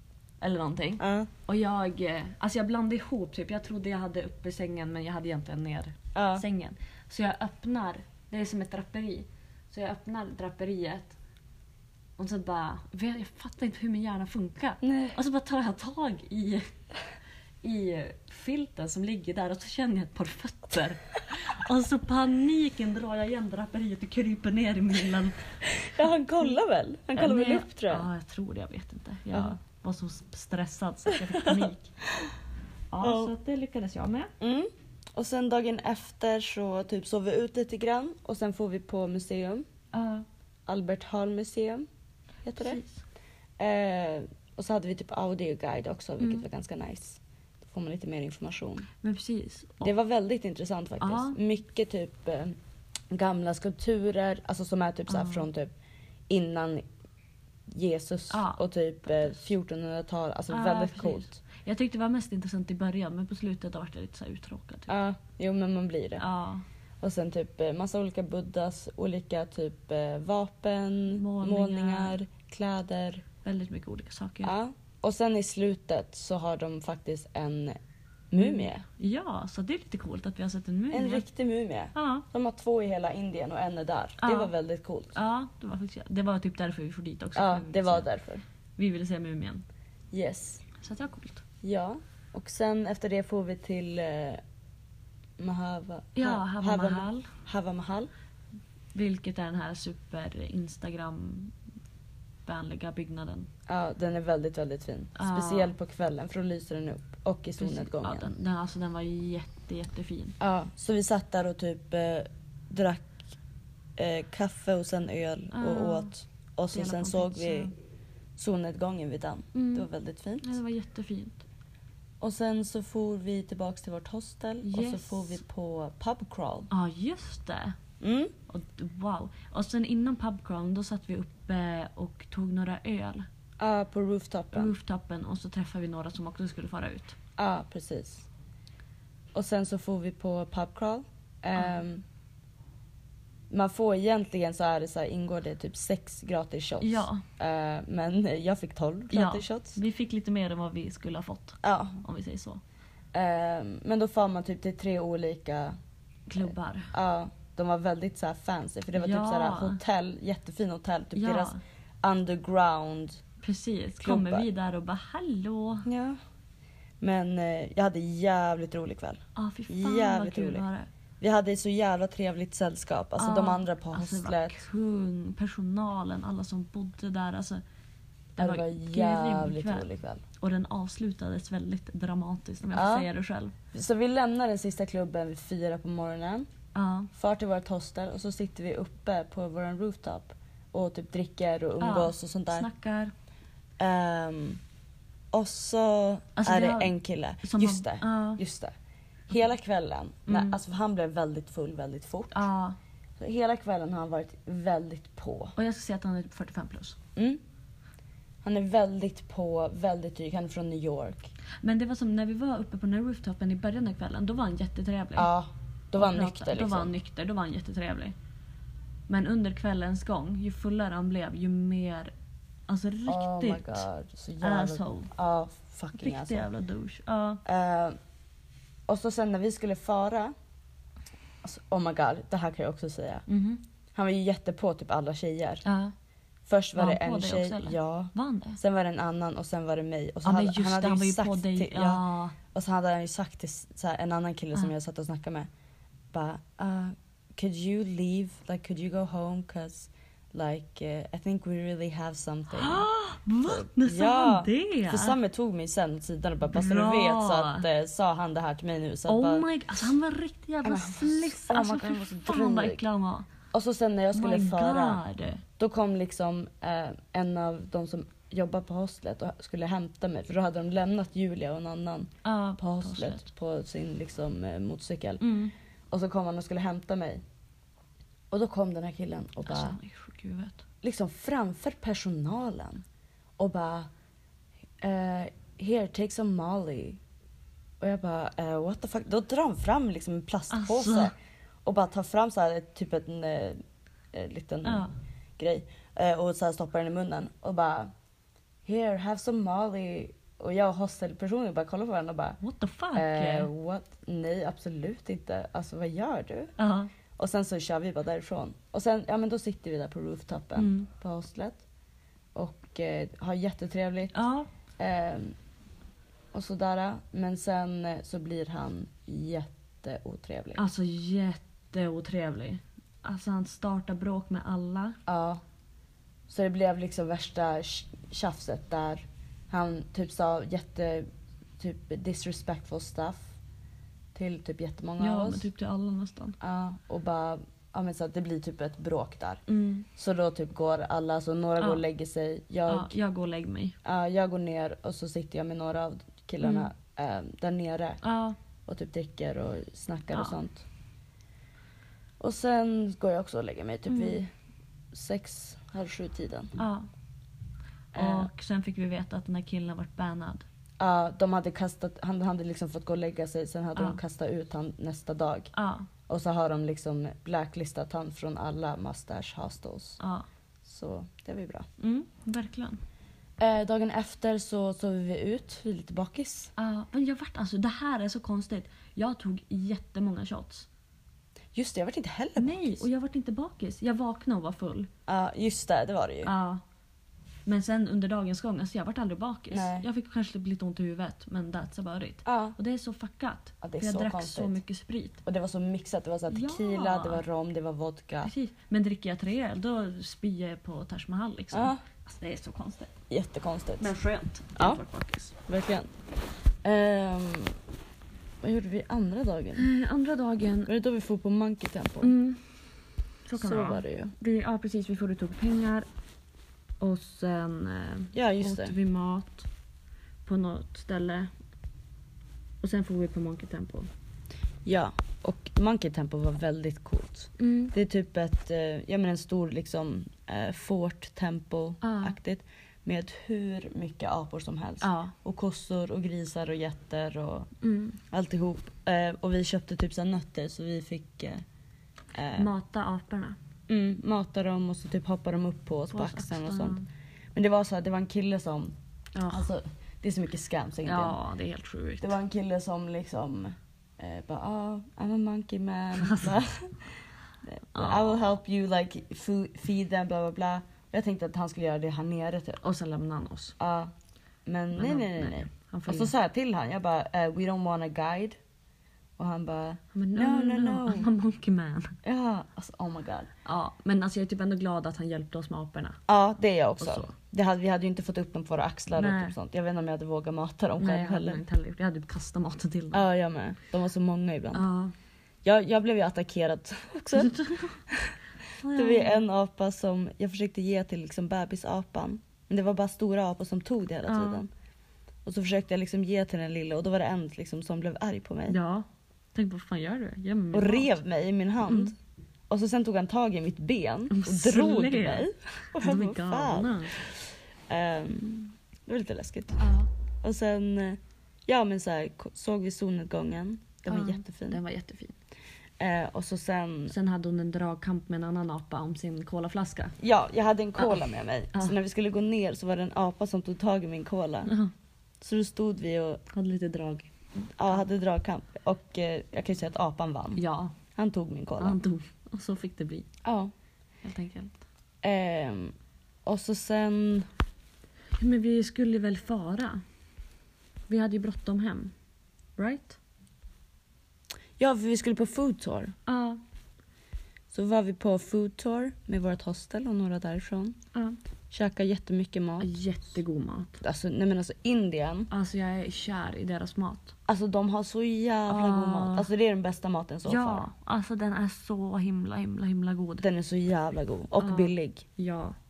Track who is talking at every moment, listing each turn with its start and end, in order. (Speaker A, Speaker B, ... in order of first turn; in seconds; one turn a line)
Speaker A: 0.4-11.2
Speaker B: 1.0-1.3
Speaker B: 6.1-6.4
Speaker A: 12.2-16.7
Speaker B: 14.8-15.2
Speaker A: 17.6-25.7
Speaker B: 25.7-28.1
Speaker A: 27.1-31.9
Speaker B: 31.3-32.3
Speaker A: 32.9-34.3
Speaker B: 33.0-33.3
Speaker B: 34.4-39.6
Speaker A: 39.9-40.2
Speaker B: 40.7-41.9
Speaker B: 42.4-42.8
Speaker A: 42.6-43.0
Speaker B: 43.6-48.9
Speaker A: 46.2-46.4
Speaker A: 49.0-49.9
Speaker B: 49.8-52.5
Speaker A: 51.0-51.4
Speaker B: 53.1-55.7
Speaker A: 55.1-55.5
Speaker B: 56.3-56.9
Speaker B: 57.7-61.4
Speaker A: 58.3-59.5
Speaker A: 60.5-64.9
Speaker B: 64.9-66.2
Speaker A: 66.2-66.6
Speaker B: 67.0-73.2
Speaker A: 71.1-72.2
Speaker A: 73.4-74.5
Speaker B: 74.4-77.8
Speaker B: 78.3-78.8
Speaker A: 78.4-81.2
Speaker B: 80.9-85.1
Speaker A: 81.9-82.2
Speaker A: 84.2-84.5
Speaker A: 85.1-88.1
Speaker B: 87.3-88.4
Speaker A: 88.8-89.6
Speaker B: 90.1-90.6
Speaker A: 90.8-91.4
Speaker B: 91.6-94.4
Speaker B: 95.4-98.1
Speaker A: 96.1-97.3
Speaker A: 98.9-101.5
Speaker A: 102.5-103.5
Speaker B: 103.7-108.3
Speaker A: 105.2-105.7
Speaker A: 107.6-110.4
Speaker B: 110.4-113.3
Speaker B: 114.0-117.7
Speaker A: 115.5-116.1
Speaker A: 116.7-117.7
Speaker B: 118.4-120.6
Speaker A: 119.5-119.9
Speaker A: 120.4-121.4
Speaker B: 122.2-126.7
Speaker A: 124.6-125.4
Speaker A: 126.7-127.8
Speaker B: 128.0-128.3
Speaker A: 128.5-133.3
Speaker B: 133.6-134.7
Speaker A: 134.5-137.2
Speaker B: 137.4-138.3
Speaker B: 139.3-142.0
Speaker B: 143.5-149.8
Speaker A: 146.8-147.2
Speaker A: 149.1-152.6
Speaker B: 151.6-152.0
Speaker B: 153.1-155.8
Speaker A: 156.3-156.9
Speaker B: 156.4-163.2
Speaker A: 158.9-159.8
Speaker A: 161.1-161.6
Speaker A: 163.4-165.9
Speaker B: 164.0-164.5
Speaker B: 165.8-166.2
Speaker B: 167.0-170.6
Speaker A: 169.3-170.9
Speaker B: 171.2-174.6
Speaker A: 173.2-177.6
Speaker A: 178.3-183.5
Speaker B: 178.4-180.2
Speaker B: 182.7-183.1
Speaker B: 183.7-186.5
Speaker A: 186.7-187.1
Speaker B: 187.1-192.7
Speaker A: 191.8-193.1
Speaker B: 193.8-194.6
Speaker B: 195.3-198.7
Speaker A: 196.3-198.4
Speaker B: 199.3-202.5
Speaker A: 200.3-200.6
Speaker A: 202.3-202.8
Speaker B: 203.2-205.5
Speaker A: 205.6-207.0
Speaker B: 208.4-211.3
Speaker A: 211.6-215.3
Speaker B: 215.2-216.9
Speaker A: 215.9-218.1
Speaker A: 219.1-222.1
Speaker A: 222.7-223.8
Speaker B: 223.1-226.5
Speaker A: 224.4-225.1
Speaker A: 225.9-227.4
Speaker B: 227.4-228.0
Speaker B: 228.9-230.3
Speaker B: 231.4-233.2
Speaker A: 233.3-233.6
Speaker B: 233.9-235.6
Speaker A: 235.6-235.9
Speaker B: 236.4-245.5
Speaker A: 236.7-238.6
Speaker A: 240.2-242.3
Speaker B: 246.1-252.9
Speaker A: 252.5-255.2
Speaker B: 253.4-259.5
Speaker A: 256.5-257.7
Speaker A: 259.1-263.3
Speaker B: 260.6-262.8
Speaker B: 263.5-265.0
Speaker A: 264.1-265.4
Speaker B: 265.6-275.2
Speaker A: 272.2-273.2
Speaker A: 275.2-275.5
Speaker B: 275.9-277.2
Speaker B: 278.3-279.8
Speaker A: 279.4-280.6
Speaker B: 280.8-282.8
Speaker B: 283.4-283.9
Speaker B: 284.8-287.0
Speaker B: 287.8-293.6
Speaker A: 290.5-291.1
Speaker B: 294.1-294.9
Speaker A: 294.6-294.9
Speaker B: 295.4-297.9
Speaker B: 298.6-302.4
Speaker A: 302.4-303.5
Speaker B: 302.9-306.5
Speaker A: 306.6-306.9
Speaker B: 307.2-311.6
Speaker A: 310.6-310.9
Speaker B: 312.3-314.1
Speaker A: 314.1-314.5
Speaker B: 314.8-315.3
Speaker B: 316.3-320.6
Speaker A: 320.6-325.0
Speaker B: 325.1-325.4
Speaker B: 326.3-331.1
Speaker B: 331.6-333.3
Speaker B: 334.1-335.5
Speaker A: 335.0-336.4
Speaker B: 336.4-339.4
Speaker A: 339.5-339.9
Speaker B: 339.9-343.0
Speaker A: 342.7-343.8
Speaker B: 343.8-348.0
Speaker A: 346.4-346.7
Speaker A: 348.0-348.4
Speaker B: 348.6-350.6
Speaker B: 352.2-354.3
Speaker A: 353.9-354.2
Speaker B: 354.9-356.6
Speaker A: 356.6-356.9
Speaker B: 357.9-358.3
Speaker A: 357.9-360.4
Speaker B: 360.8-365.5
Speaker A: 365.5-365.9
Speaker B: 366.1-370.0
Speaker A: 370.0-370.2
Speaker B: 370.6-371.7
Speaker A: 371.8-372.8
Speaker B: 373.4-376.5
Speaker A: 376.6-380.7
Speaker B: 381.5-382.9
Speaker A: 382.4-384.9
Speaker B: 385.1-386.3
Speaker A: 386.2-386.6
Speaker A: 387.4-395.2
Speaker B: 389.5-389.9
Speaker B: 392.2-392.6
Speaker B: 393.6-394.6
Speaker B: 395.2-398.3
Speaker A: 396.3-397.2
Speaker A: 398.2-402.9
Speaker B: 401.5-401.8
Speaker B: 403.1-403.9
Speaker A: 403.8-405.4
Speaker B: 404.6-404.8
Speaker B: 405.4-405.9
Speaker B: 406.6-407.6
Speaker B: 408.4-409.7
Speaker A: 409.5-410.7
Speaker B: 410.7-412.1
Speaker A: 412.0-412.4
Speaker A: 413.2-415.9
Speaker B: 413.4-414.1
Speaker A: 416.8-419.5
Speaker B: 418.1-418.7
Speaker A: 420.2-421.3
Speaker A: 422.6-423.9
Speaker B: 424.6-437.5
Speaker A: 427.4-427.7
Speaker A: 431.8-432.2
Speaker A: 434.8-435.1
Speaker A: 437.6-438.0
Speaker B: 438.1-441.4
Speaker B: 442.1-442.5
Speaker A: 442.3-443.4
Speaker B: 443.7-446.8
Speaker A: 445.9-446.9
Speaker B: 447.3-448.7
Speaker A: 449.1-449.5
Speaker B: 449.3-451.2
Speaker A: 450.8-452.2
Speaker B: 452.0-462.6
Speaker A: 456.0-456.3
Speaker A: 457.7-458.2
Speaker A: 462.6-463.6
Speaker B: 463.6-463.9
Speaker B: 464.4-468.4
Speaker A: 464.7-466.1
Speaker B: 469.2-471.1
Speaker A: 469.9-471.9
Speaker B: 472.0-473.3
Speaker A: 473.4-476.0
Speaker B: 476.1-481.4
Speaker A: 476.8-477.1
Speaker A: 478.9-479.3
Speaker A: 480.8-483.0
Speaker B: 482.9-484.6
Speaker A: 484.5-484.9
Speaker B: 485.4-488.1
Speaker A: 487.1-487.8
Speaker A: 488.6-489.2
Speaker B: 488.7-494.5
Speaker A: 494.1-494.4
Speaker B: 495.2-498.6
Speaker A: 498.5-500.9
Speaker B: 500.5-501.9
Speaker A: 501.6-501.9
Speaker B: 502.5-509.6
Speaker A: 504.1-506.9
Speaker A: 509.6-509.9
Speaker B: 510.2-514.6
Speaker A: 513.9-515.1
Speaker B: 515.8-516.9
Speaker A: 516.9-520.0
Speaker B: 520.0-524.5
Speaker A: 524.5-524.7
Speaker B: 525.2-526.2
Speaker A: 526.3-527.1
Speaker B: 527.5-530.4
Speaker A: 530.4-530.7
Speaker B: 530.9-531.8
Speaker A: 531.6-533.1
Speaker B: 533.2-533.5
Speaker A: 534.0-534.6
Speaker B: 535.0-537.3
Speaker A: 538.2-539.8
Speaker A: 540.9-541.9
Speaker A: 542.6-543.0
Speaker B: 544.6-545.9
Speaker A: 546.1-546.4
Speaker B: 547.5-550.8
Speaker B: 551.5-552.7
Speaker A: 552.6-553.8
Speaker B: 553.8-555.3
Speaker A: 555.3-557.1
Speaker B: 557.3-560.6
Speaker A: 558.5-559.3
Speaker A: 560.2-563.2
Speaker B: 563.2-565.0
Speaker A: 564.4-565.5